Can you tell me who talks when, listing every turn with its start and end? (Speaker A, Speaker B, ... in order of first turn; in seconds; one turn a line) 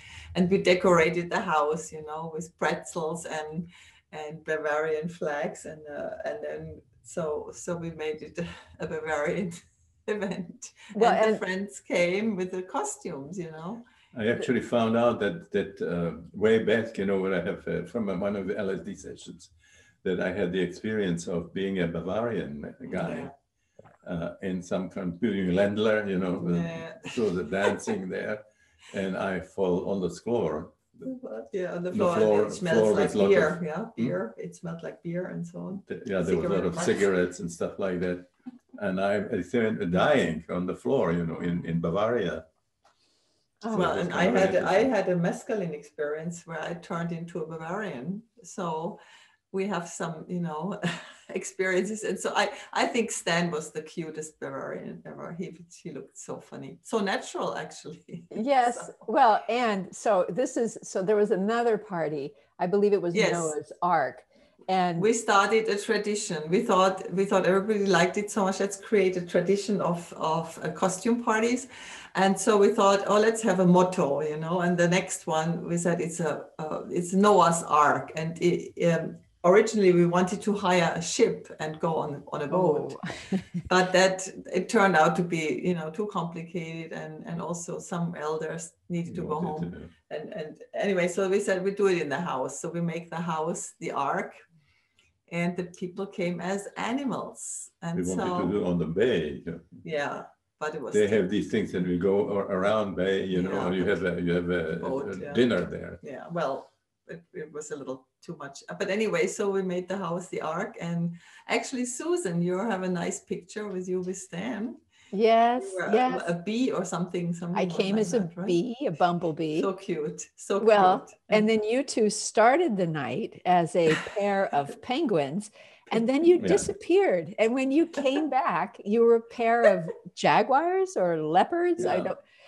Speaker A: 0.3-13.8
Speaker B: 10.9-11.4
Speaker C: 14.1-23.3
Speaker A: 22.9-23.3
Speaker C: 24.0-31.1
Speaker A: 26.4-27.9
Speaker A: 31.0-37.1
Speaker C: 31.9-34.2
Speaker C: 35.7-42.5
Speaker A: 41.4-41.7
Speaker B: 43.6-43.9
Speaker A: 43.7-49.0
Speaker C: 43.7-44.9
Speaker A: 49.5-59.0
Speaker B: 58.3-65.1
Speaker A: 63.1-63.5
Speaker A: 65.0-83.0
Speaker B: 82.5-83.6
Speaker A: 83.7-94.4
Speaker C: 89.1-89.9
Speaker A: 95.3-98.5
Speaker C: 98.0-99.8
Speaker A: 99.8-101.2
Speaker C: 100.9-106.0
Speaker A: 103.3-104.1
Speaker A: 104.7-105.5
Speaker A: 106.0-114.8
Speaker B: 115.1-116.3
Speaker A: 115.6-118.6
Speaker B: 117.5-119.7
Speaker A: 119.5-121.5
Speaker B: 120.6-132.2
Speaker C: 126.4-126.7
Speaker C: 131.8-132.1